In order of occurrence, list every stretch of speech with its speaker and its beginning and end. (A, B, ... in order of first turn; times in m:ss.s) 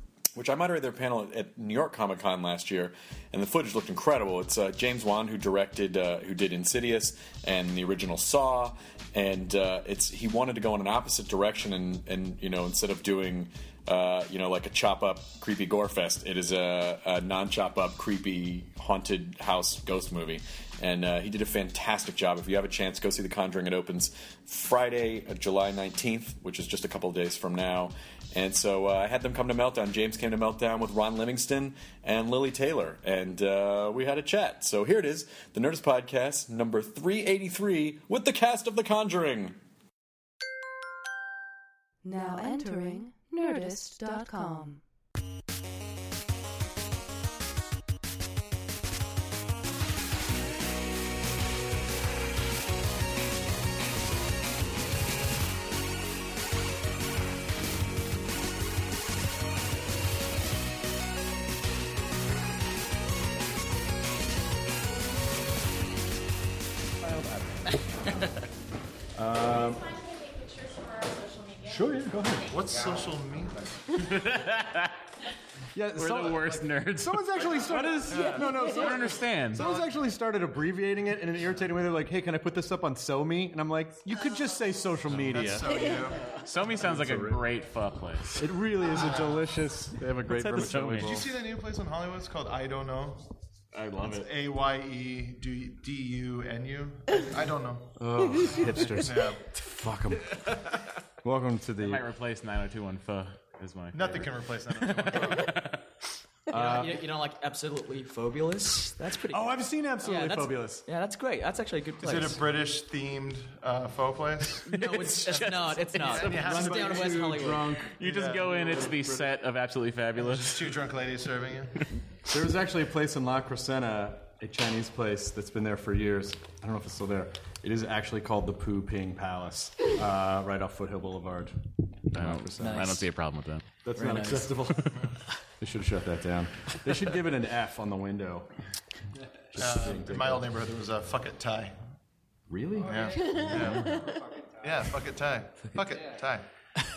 0:00.3-0:39.6 A
0:42.0-0:44.8 B
1:09.1-1:10.0 C
1:11.6-1:12.5 C
1:12.4-1:13.6 D
1:13.9-1:15.0 E
1:15.7-1:25.9 C
1:15.9-1:19.7 E
1:17.8-1:18.4 D
1:19.5-1:20.1 D
1:25.0-1:26.3 D
1:26.3-1:28.5 E
1:26.7-1:27.4 C
1:28.4-1:31.2 C
1:28.9-1:29.4 D
1:30.3-1:31.2 E
1:31.0-1:33.3 D
1:33.7-1:34.3 E
1:34.0-1:38.4 D
1:38.0-1:42.0 C
1:39.0-1:39.5 D
1:41.8-1:45.8 E
1:43.9-1:45.6 D
1:46.5-1:52.4 F
1:46.5-1:47.0 C
1:49.3-1:50.8 C
1:52.0-1:59.2 D
1:54.7-1:56.4 E
1:54.7-1:57.8 F
1:56.2-1:58.3 C
1:57.9-2:00.9 E
2:00.2-2:01.8 D
2:02.3-2:11.6 C
2:12.1-2:13.0 C
2:12.1-2:13.6 E
2:12.6-2:13.0 F
2:13.8-2:18.5 C
2:14.0-2:14.7 F
2:19.5-2:20.5 C
2:19.5-2:21.7 D
2:22.5-2:24.0 C
2:22.8-2:26.5 D